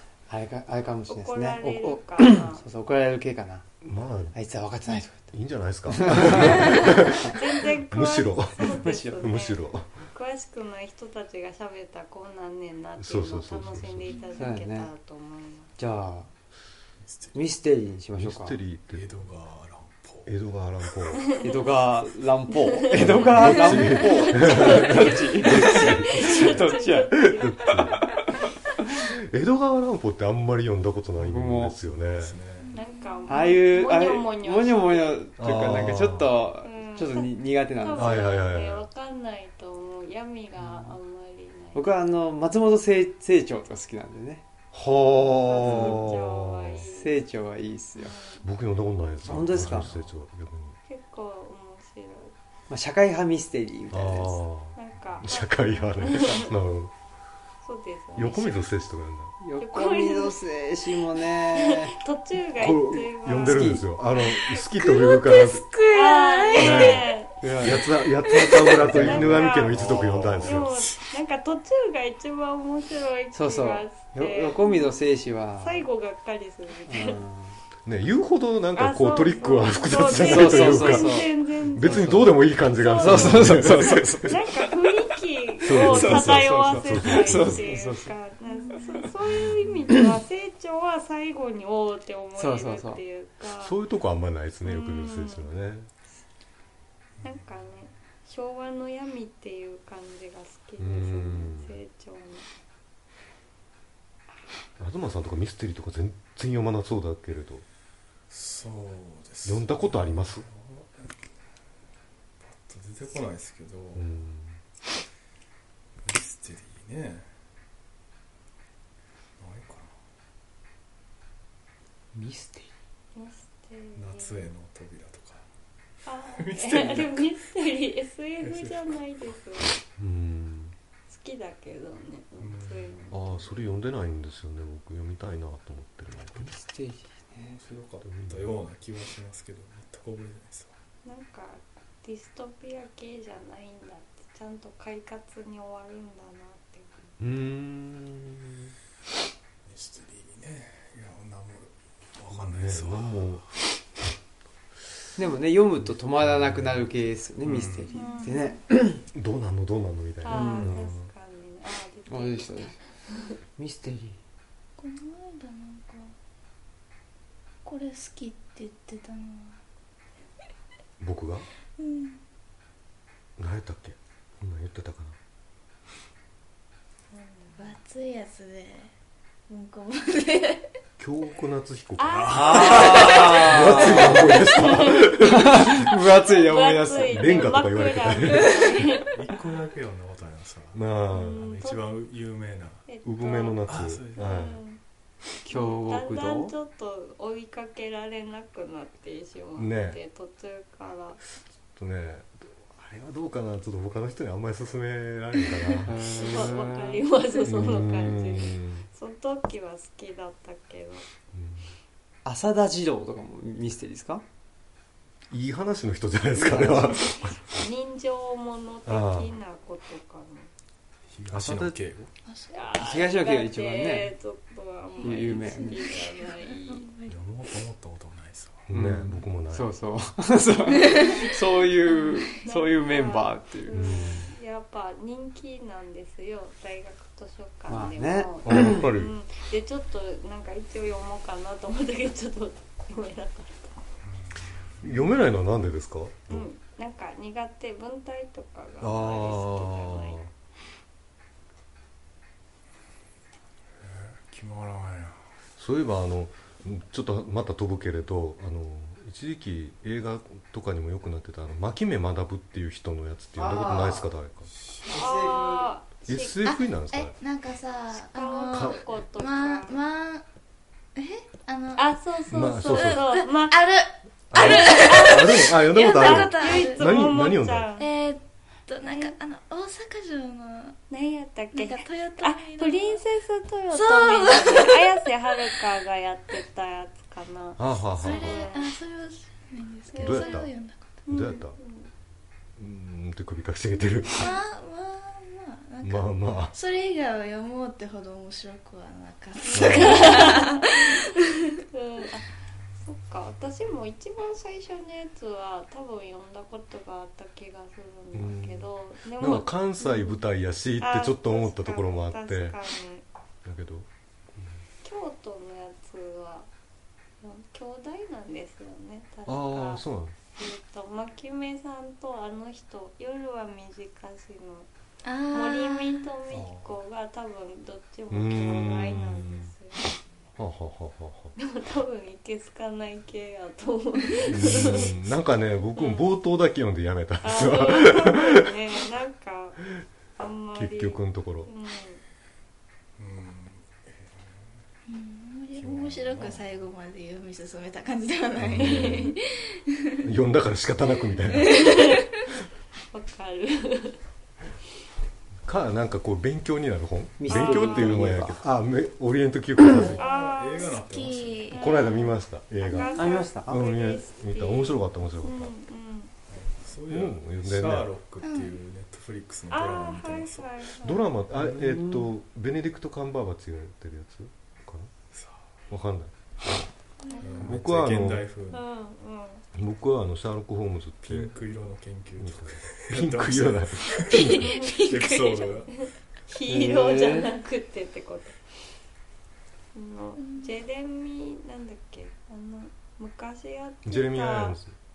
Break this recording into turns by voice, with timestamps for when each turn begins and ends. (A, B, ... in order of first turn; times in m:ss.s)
0:00.3-0:03.7 A
0:01.1-0:02.6 B
0:03.8-0:04.4 C
0:04.3-0:05.3 A
0:05.3-0:10.0 C
0:05.9-0:07.4 A
0:06.7-0:15.7 B
0:08.6-0:09.3 A
0:13.0-0:14.2 C
0:14.1-0:14.4 D
0:14.4-0:14.9 A
0:15.8-0:16.3 A
0:17.0-0:17.4 E
0:17.3-0:18.6 A
0:18.2-0:19.1 C
0:18.9-0:20.3 E
0:20.3-0:21.3 C
0:21.2-0:21.8 B
0:21.4-0:28.0 A
0:22.9-0:28.0 B
0:23.0-0:26.6 C
0:26.1-0:26.7 E
0:27.1-0:28.1 C
0:29.0-0:32.4 C
0:31.2-0:31.8 A
0:32.0-0:32.7 E
0:32.6-0:33.6 D
0:32.7-0:35.3 B
0:33.3-0:38.2 A
0:35.4-0:36.3 C
0:36.6-0:41.9 B
0:37.9-0:38.9 C
0:41.7-0:44.4 A
0:44.7-0:46.8 C
0:45.4-0:47.2 B
0:45.6-0:46.1 A
0:46.8-0:48.2 A
0:48.0-0:48.4 B
0:48.4-0:50.8 C
0:49.3-0:49.9 A
0:49.4-0:50.0 E
0:50.9-0:52.3 B
0:52.7-0:54.4 A
0:53.9-0:56.9 C
0:54.8-0:56.6 B
0:57.6-0:58.6 B
0:58.2-0:59.4 C
0:59.4-1:02.0 A
0:59.6-1:00.4 B
1:01.5-1:03.9 B
1:02.6-1:05.7 C
1:03.3-1:03.8 A
1:04.8-1:07.0 D
1:05.8-1:07.4 B
1:06.6-1:10.7 C
1:07.4-1:09.6 A
1:08.4-1:15.0 B
1:09.5-1:11.0 E
1:13.3-1:15.9 A
1:15.6-1:17.2 B
1:16.9-1:17.6 A
1:17.9-1:24.4 C
1:18.8-1:33.8 B
1:20.1-1:22.3 A
1:23.0-1:24.6 A
1:25.6-1:27.7 C
1:25.6-1:28.1 A
1:28.6-1:29.0 D
1:29.3-1:29.6 E
1:32.4-1:33.0 A
1:33.6-1:35.9 C
1:34.6-1:35.5 B
1:37.2-1:42.5 B
1:40.8-1:41.8 C
1:44.8-1:47.6 C
1:48.3-1:51.2 E
1:49.4-1:50.5 C
1:52.4-1:54.1 E
1:54.0-1:54.6 C
1:56.0-1:57.3 E
1:59.4-1:59.9 E
2:02.1-2:02.7 A
2:03.2-2:04.5 B
2:04.0-2:05.5 E
2:06.0-2:09.8 B
2:06.3-2:07.3 E
2:08.4-2:09.0 E
2:10.0-2:10.8 C
2:11.1-2:13.5 B
2:12.4-2:13.0 E
2:13.1-2:16.5 C
2:16.3-2:17.6 A
2:17.4-2:20.7 E
2:18.1-2:18.5 C
2:21.0-2:27.1 B
2:27.2-2:28.5 C
2:29.6-2:33.5 E
2:32.3-2:33.4 C
2:35.2-2:39.0 A
2:35.8-2:36.9 C
2:37.4-2:38.0 E
2:37.9-2:38.5 B
2:38.0-2:38.3 D
2:39.1-2:41.1 C
2:40.2-2:43.4 B
2:40.3-2:40.8 A
2:42.1-2:42.8 A
2:43.6-2:44.2 A
2:44.8-2:46.1 D
2:47.6-2:49.6 D
2:51.0-2:51.5 C
2:51.8-2:52.2 D
2:53.4-2:55.2 C
2:57.1-2:57.6 B
2:57.6-2:58.9 D
2:59.5-3:00.7 D
3:01.0-3:05.8 C
3:02.0-3:09.2 B
3:02.1-3:03.8 E
3:02.3-3:04.6 A
3:05.2-3:07.6 A
3:07.1-3:08.8 C
3:08.3-3:08.8 D
3:09.1-3:12.8 E
3:10.7-3:11.4 C
3:11.1-3:11.9 B
3:12.9-3:13.6 B
3:13.0-3:14.6 C
3:13.6-3:14.5 E
3:14.2-3:14.8 B
3:15.4-3:16.5 A
3:15.5-3:21.2 B
3:19.6-3:20.0 C
3:21.8-3:26.5 C
3:25.8-3:27.0 A
3:25.8-3:31.1 B
3:27.4-3:28.9 C
3:31.3-3:31.7 C
3:32.2-3:34.2 A
3:35.3-3:37.4 C
3:36.4-3:37.1 A
3:36.5-3:40.5 B
3:38.9-3:39.4 C
3:41.1-3:42.1 E
3:41.3-3:41.8 C
3:42.3-3:42.7 D
3:42.5-3:46.9 B
3:42.7-3:44.1 A
3:45.0-3:47.2 D
3:45.0-3:45.8 A
3:47.1-3:49.0 E
3:48.7-3:49.7 C
3:48.7-3:54.0 A
3:50.8-3:51.3 D
3:50.9-3:51.4 B
3:51.8-3:52.4 D
3:52.4-4:03.8 B
3:53.7-3:54.3 C
3:57.7-3:58.8 A
3:58.4-3:59.2 C
4:04.0-4:05.1 E
4:04.8-4:06.5 C
4:06.3-4:10.2 B
4:08.8-4:10.3 C
4:13.8-4:15.2 E
4:15.6-4:24.5 C
4:23.4-4:24.1 A
4:24.6-4:24.9 E
4:24.8-4:25.7 A
4:24.9-4:26.4 B
4:26.1-4:27.2 C
4:26.4-4:30.2 D
4:27.9-4:29.7 B
4:28.5-4:28.8 C
4:31.0-4:37.2 D
4:31.8-4:33.6 B
4:32.3-4:33.1 C
4:34.3-4:37.7 C
4:34.4-4:37.9 B
4:37.8-4:40.8 D
4:38.8-4:39.2 B
4:40.9-4:48.7 B
4:41.5-4:43.0 D
4:43.7-4:45.6 D
4:47.6-4:48.5 C
4:48.0-4:51.0 D
4:49.9-4:50.5 B
4:49.9-4:50.5 C
4:51.1-4:51.9 B
4:51.1-4:51.5 C
4:52.6-4:54.3 C
4:54.1-5:01.6 D
4:55.8-4:56.6 C
4:59.4-5:01.0 B
4:59.5-5:00.2 C
5:01.7-5:02.3 B
5:02.8-5:10.2 B
5:08.1-5:12.6 C
5:10.8-5:13.0 B
5:13.4-5:13.9 C
5:14.8-5:16.5 B
5:17.2-5:19.8 B
5:19.3-5:20.2 C
5:20.4-5:24.7 B
5:25.0-5:26.1 D
5:25.3-5:29.9 B
5:28.1-5:29.5 C
5:30.4-5:31.4 C
5:31.4-5:35.0 B
5:34.2-5:38.6 C
5:35.8-5:36.1 B
5:37.2-5:39.6 B
5:40.2-5:42.0 B
5:40.5-5:41.5 C
5:43.0-5:44.6 E
5:44.9-5:50.0 D
5:45.6-5:46.7 E
5:48.4-5:49.2 C
5:48.5-5:49.1 B
5:50.0-5:51.7 C
5:51.3-5:52.3 D
5:51.5-5:52.0 B
5:52.9-5:54.0 B
5:55.4-6:00.0 C
5:57.2-5:58.4 A
5:57.3-5:58.1 B
5:59.6-6:01.5 E
5:59.7-6:00.8 B
6:00.6-6:01.8 D
6:01.5-6:05.5 C
6:01.5-6:06.1 B
6:02.9-6:03.6 A
6:06.3-6:10.5 E
6:06.9-6:07.9 C
6:08.2-6:08.6 D
6:09.5-6:11.1 B
6:10.8-6:14.9 C
6:11.4-6:12.1 A
6:15.1-6:15.5 E
6:15.7-6:16.1 C
6:17.0-6:17.5 D
6:17.2-6:18.6 E
6:17.4-6:18.2 C
6:18.5-6:19.4 B
6:19.6-6:21.3 C
6:21.0-6:25.9 E
6:22.2-6:24.6 C
6:24.1-6:25.4 D
6:24.5-6:24.9 B
6:25.8-6:28.4 B
6:26.5-6:27.3 A
6:29.7-6:34.6 B
6:30.2-6:30.6 D
6:33.8-6:34.7 C